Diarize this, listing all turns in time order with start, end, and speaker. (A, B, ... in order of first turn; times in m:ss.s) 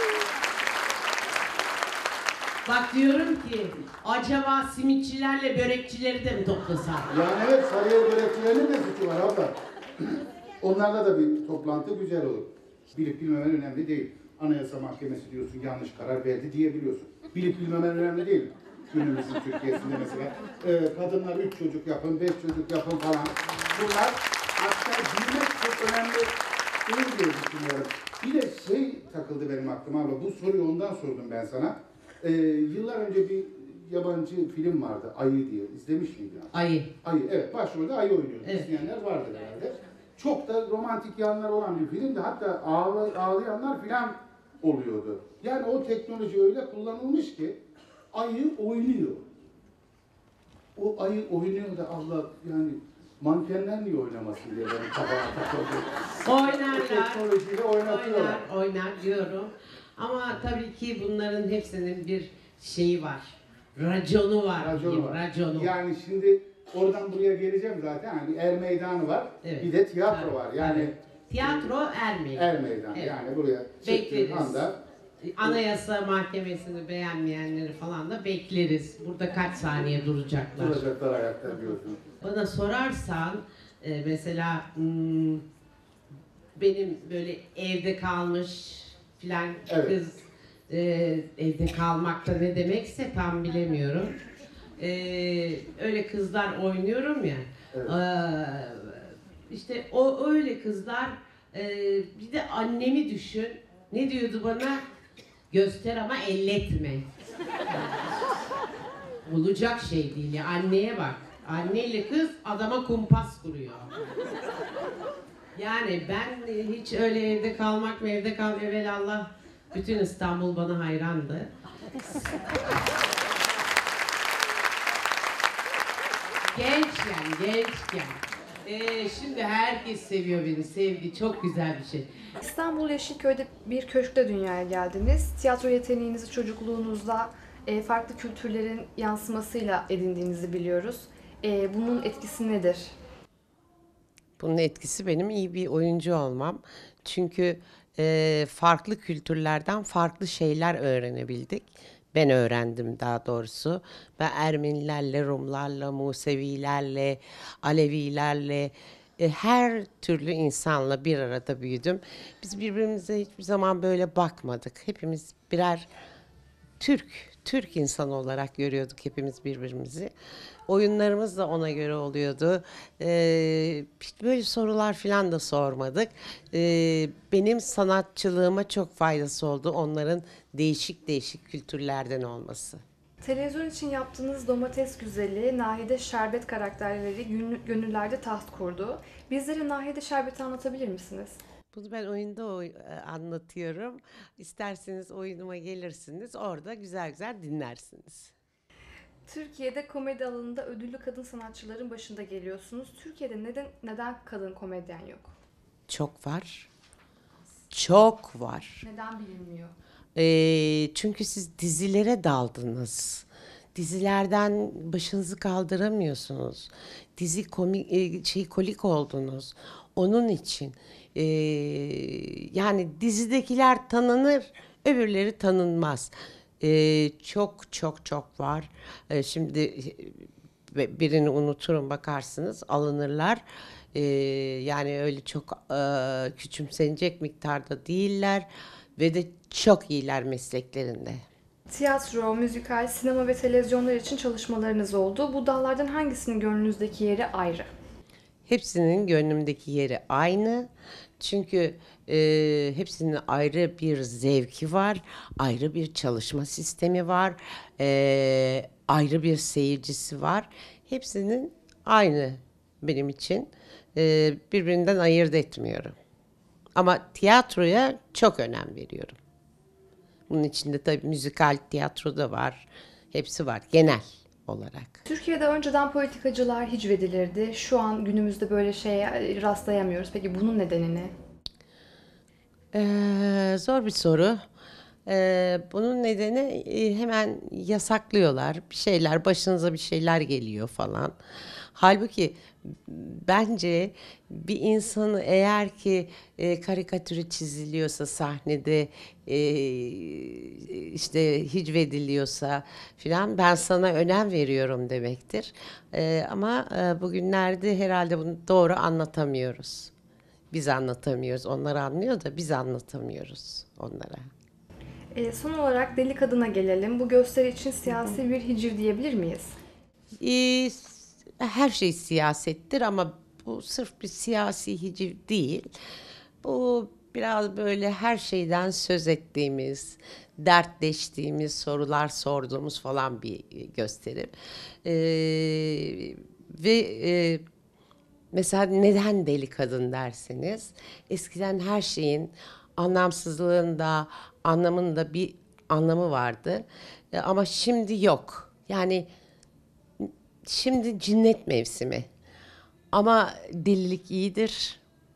0:02.7-0:07.1 A
0:07.1-0:26.3 B
0:26.9-0:47.6 B
0:36.5-0:36.9 A
0:48.1-0:49.2 B
0:50.8-0:55.9 B
0:56.2-0:57.2 A
0:56.4-0:58.4 B
0:57.8-1:05.7 A
1:04.6-1:11.7 B
1:09.4-1:13.2 A
1:12.3-1:14.7 B
1:13.8-1:14.6 A
1:15.2-1:20.8 A
1:20.6-1:22.0 B
1:22.2-1:25.4 A
1:26.6-1:34.2 A
1:29.7-1:30.0 B
1:34.8-1:44.8 A
1:45.5-1:47.1 A
1:49.2-1:53.9 A
1:55.6-2:01.5 A
2:06.5-2:12.2 A
2:12.4-2:22.9 C
2:24.4-2:45.9 A
2:46.8-2:50.1 A
2:50.7-3:02.8 A
3:03.2-3:11.4 C
3:11.7-3:18.3 A
3:19.2-3:25.3 C
3:25.9-3:26.7 A
3:27.7-3:28.8 A
3:28.8-3:29.8 C
3:30.2-3:53.4 A
3:53.9-4:01.2 A
4:01.7-4:07.7 C
4:08.5-4:10.7 A
4:11.2-4:26.0 A
4:26.8-4:29.2 A
4:30.3-4:35.0 A
4:35.1-4:41.1 C
4:42.7-4:44.4 A
4:45.1-4:51.1 A
4:51.8-5:09.9 A
5:10.5-5:14.2 A
5:15.1-5:19.6 C
5:20.2-5:25.7 A
5:26.4-5:34.3 A
5:34.8-5:37.4 A
5:38.3-5:49.1 A
5:50.0-5:52.1 A
5:52.9-5:54.8 A